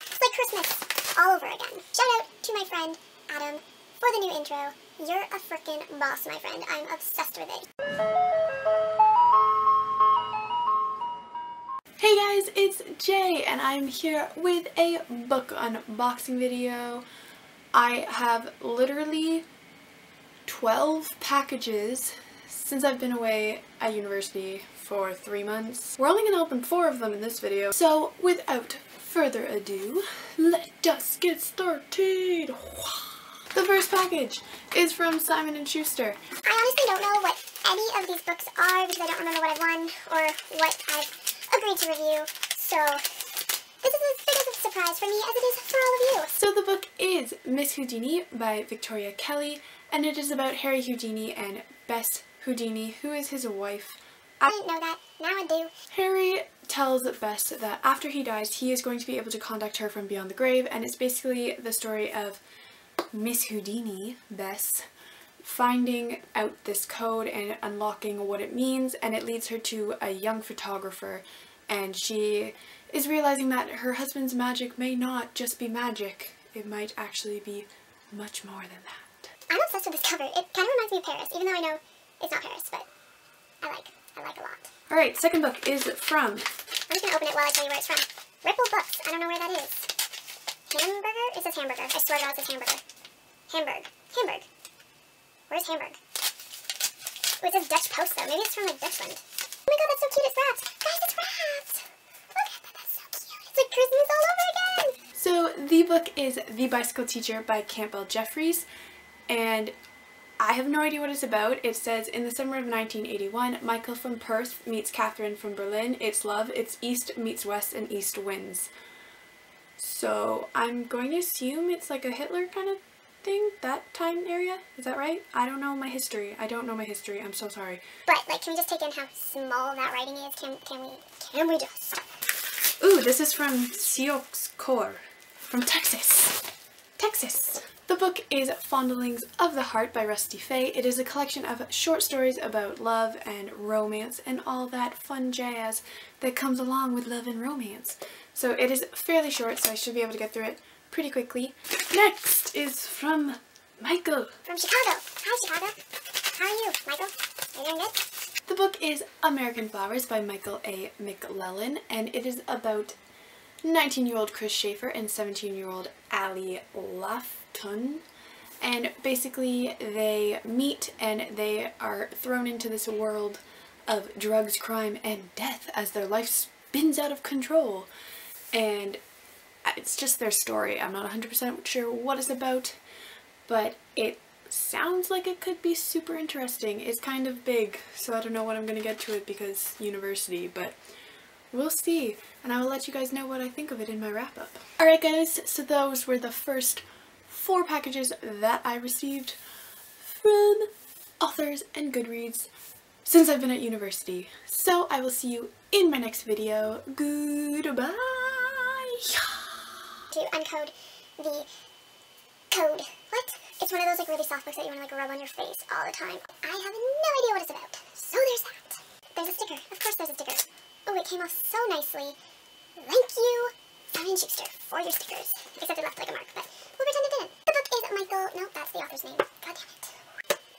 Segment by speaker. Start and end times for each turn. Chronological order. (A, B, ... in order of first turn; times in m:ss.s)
0:00.2-0:07.6 A
0:12.0-0:17.0 B
0:17.7-0:19.4 B
0:20.4-0:36.2 B
0:36.4-0:43.0 A
0:43.8-0:46.3 A
0:46.3-0:54.5 B
0:54.5-0:55.7 A
0:55.9-1:02.4 B
1:03.1-1:04.8 B
1:05.4-1:19.3 B
1:19.5-1:22.9 A
1:23.6-1:24.7 A
1:24.9-1:26.5 B
1:26.9-1:29.9 A
1:30.7-1:32.8 A
1:33.5-1:34.5 A
1:35.5-1:36.0 A
1:37.4-1:45.0 A
1:45.1-1:48.7 B
1:49.3-1:49.7 B
1:50.4-1:58.7 B
1:59.8-2:07.8 B
2:08.1-2:12.0 A
2:12.8-2:16.4 B
2:17.0-2:34.3 B
2:34.4-2:35.8 A
2:36.3-2:38.0 A
2:38.5-2:43.0 B
2:43.6-2:48.0 B
2:48.6-2:57.9 B
2:58.5-2:59.0 B
2:59.6-3:02.8 B
3:03.5-3:10.7 B
3:11.5-3:19.4 B
3:20.0-3:20.7 B
3:21.2-3:22.5 B
3:23.0-3:29.7 B
3:30.1-3:31.5 A
3:32.5-3:42.2 A
3:42.8-3:49.9 A